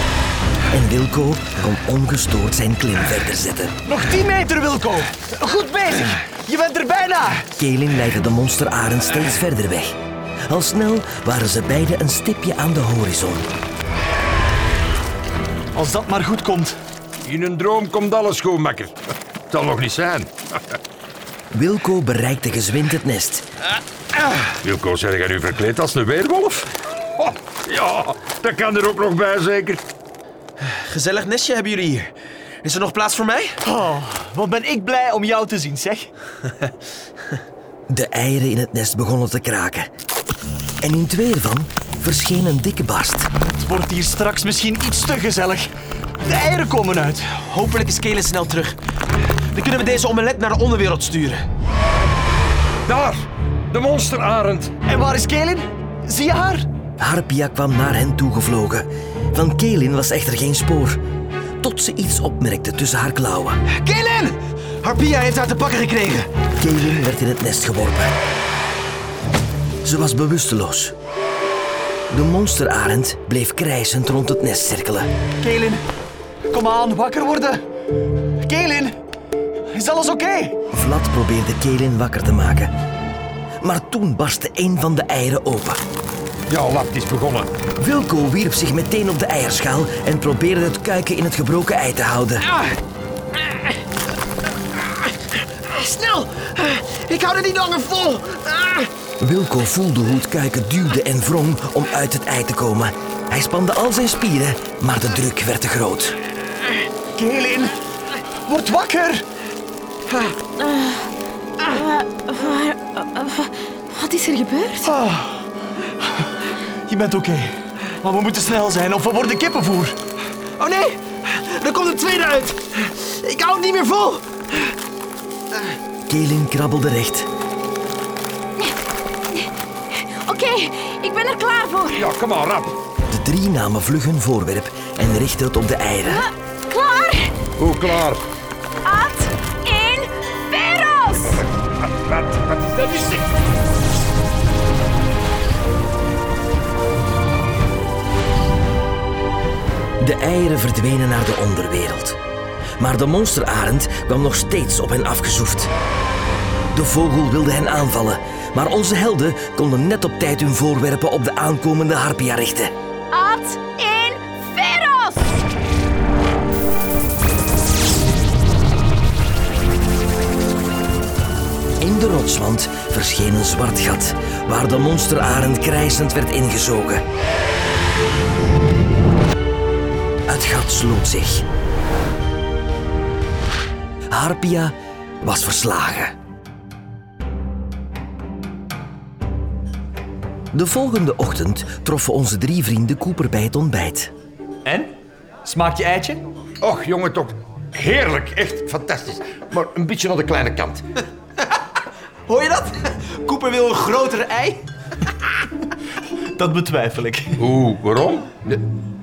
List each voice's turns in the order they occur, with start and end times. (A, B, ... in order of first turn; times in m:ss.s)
0:00.7-0:03.8 A
0:03.8-0:07.4 B
0:07.6-0:10.0 A
0:10.5-0:13.5 A
0:15.7-0:16.8 B
0:17.2-0:19.0 C
0:19.5-0:20.6 C
0:21.5-0:23.4 A
0:24.6-0:29.8 C
0:30.6-0:32.1 D
0:32.6-0:33.6 D
0:33.6-0:36.1 B
0:37.9-0:39.9 A
0:40.8-0:43.3 A
0:43.4-0:45.7 B
0:46.2-0:47.3 B
0:47.3-0:48.8 D
0:49.5-0:51.4 D
0:52.9-0:54.7 C
0:54.9-0:56.6 B
0:57.0-1:01.0 A
1:01.6-1:03.6 A
1:03.7-1:06.3 D
1:06.6-1:08.2 A
1:09.8-1:10.9 A
1:12.1-1:15.1 A
1:15.4-1:15.9 B
1:16.5-1:17.6 B
1:18.4-1:18.9 B
1:19.7-1:20.6 B
1:20.7-1:22.7 A
1:23.6-1:25.8 A
1:26.5-1:27.5 C
1:27.8-1:32.5 A
1:34.8-1:38.9 D
1:39.2-1:46.2 A
1:47.2-1:47.8 B
1:48.5-1:49.3 B
1:50.7-1:51.0 E
1:51.6-1:54.9 E
1:54.8-1:55.4 B
1:56.9-2:00.0 B
2:00.6-2:04.7 D
2:06.1-2:07.3 A
2:09.3-2:12.1 E
2:11.9-2:12.8 C
2:13.1-2:16.3 A
2:16.0-2:17.4 E
2:17.6-2:18.2 C
2:18.8-2:21.4 E
2:21.3-2:23.3 C
2:30.0-2:32.2 A
2:32.8-2:35.7 A
2:36.7-2:42.7 A
2:43.1-2:45.3 E
2:51.8-2:57.0 A
3:00.3-3:01.4 A
3:04.1-3:06.1 A
3:10.5-3:14.1 A
3:14.6-3:14.9 B
3:15.4-3:16.2 B
3:16.6-3:20.8 C
3:22.3-3:24.6 D
3:26.3-3:27.4 B
3:27.4-3:28.6 C